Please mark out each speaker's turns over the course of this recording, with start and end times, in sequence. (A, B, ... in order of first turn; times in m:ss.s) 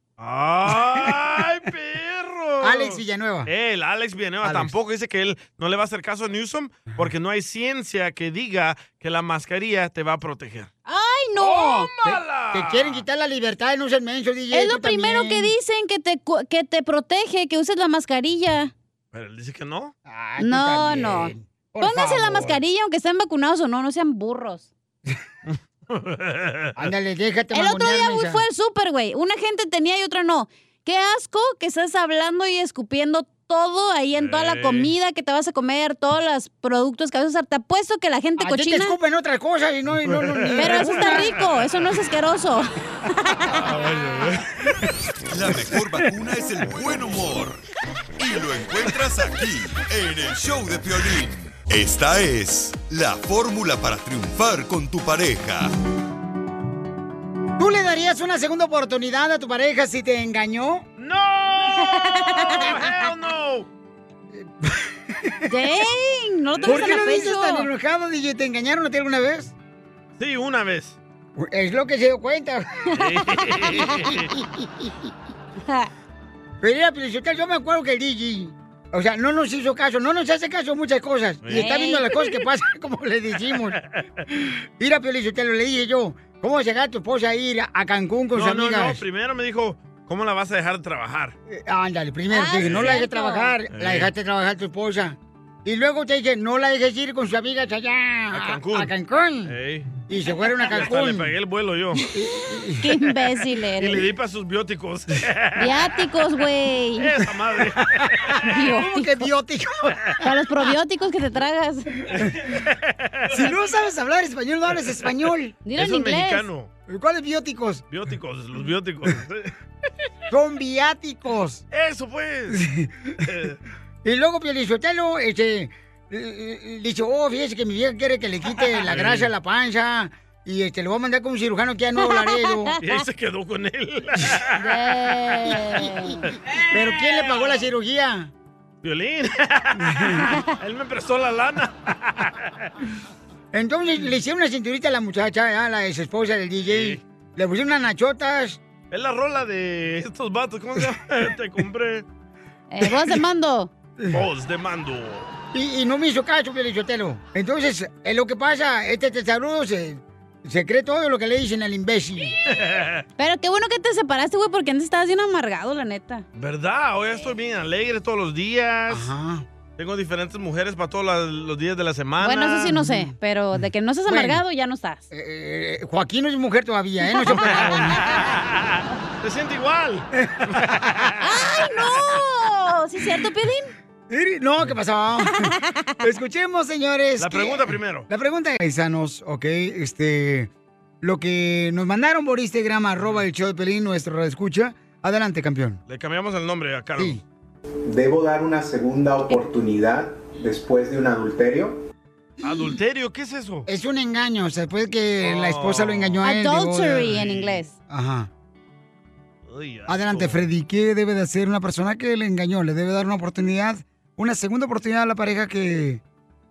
0:00.2-0:10.7 A
0:02.6-0:03.5 B
0:04.4-0:04.7 B
0:10.8-0:11.9 C
0:11.4-0:13.0 A
0:11.4-0:15.5 B
0:14.5-0:18.7 C
0:19.1-0:19.9 A
0:20.0-0:22.6 B
0:20.4-0:24.7 C
0:25.5-0:26.8 A
0:26.8-0:28.4 B
0:27.5-0:38.9 C
0:34.1-0:34.9 A
0:38.4-0:41.2 B
0:40.1-0:41.5 A
0:40.6-0:43.6 C
0:43.5-0:44.9 A
0:45.3-0:47.6 D
0:48.2-0:55.7 D
0:57.6-1:00.8 B
1:01.0-1:03.7 A
1:01.9-1:02.8 C
1:04.3-1:05.5 B
1:05.5-1:07.7 C
1:06.5-1:07.1 A
1:06.6-1:09.5 B
1:10.2-1:11.0 A
1:11.4-1:12.8 B
1:13.0-1:14.3 A
1:13.8-1:14.9 B
1:16.6-1:23.8 B
1:21.4-1:21.7 A
1:21.5-1:22.0 C
1:24.3-1:29.0 B
1:28.3-1:31.3 A
1:31.5-1:39.5 B
1:32.3-1:33.5 C
1:32.6-1:32.9 A
1:33.7-1:34.1 A
1:38.3-1:38.9 A
1:39.4-1:40.0 A
1:40.1-1:41.3 B
1:40.7-1:42.1 A
1:42.1-1:42.9 B
1:42.8-1:44.1 C
1:43.8-1:45.7 A
1:45.6-1:47.1 C
1:47.0-1:48.4 A
1:48.0-1:50.2 B
1:48.5-1:49.3 C
1:50.2-1:51.9 C
1:52.1-1:52.5 B
1:52.5-1:53.5 A
1:53.3-1:55.6 B
1:55.6-1:56.5 C
1:55.8-1:56.7 A
1:56.9-1:57.8 B
1:57.9-1:59.5 A
2:00.3-2:01.6 B
2:01.7-2:02.6 A
2:02.5-2:03.2 B
2:03.2-2:03.6 A
2:04.0-2:12.8 B
2:08.8-2:09.3 A
2:12.1-2:12.7 C
2:12.8-2:14.7 A
2:14.6-2:16.3 C
2:16.7-2:18.3 B
2:18.8-2:22.7 A
2:19.8-2:20.3 B
2:23.5-2:28.6 B
2:26.6-2:27.0 A
2:28.9-2:32.0 A
2:32.7-2:33.7 C
2:34.1-2:35.3 A
2:35.5-2:42.4 B
2:42.5-2:43.0 A
2:43.2-2:46.2 C
2:46.3-2:49.1 A
2:48.9-2:49.4 B
2:49.8-2:52.8 A
2:52.2-2:55.0 C
2:52.8-2:53.1 B
2:54.1-2:54.4 B
2:55.1-2:58.0 B
2:57.2-2:57.5 C
2:57.4-3:01.9 A
3:00.2-3:01.0 B
3:01.2-3:03.7 C
3:04.1-3:10.5 B
3:05.3-3:05.9 C
3:07.2-3:08.1 A
3:11.0-3:15.8 B
3:15.9-3:17.2 A
3:17.8-3:21.8 E
3:22.4-3:23.7 A
3:23.7-3:27.2 B
3:25.2-3:26.2 A
3:26.2-3:27.7 C
3:27.1-3:27.5 A
3:27.9-3:28.3 B
3:29.5-3:30.4 A
3:29.9-3:36.0 B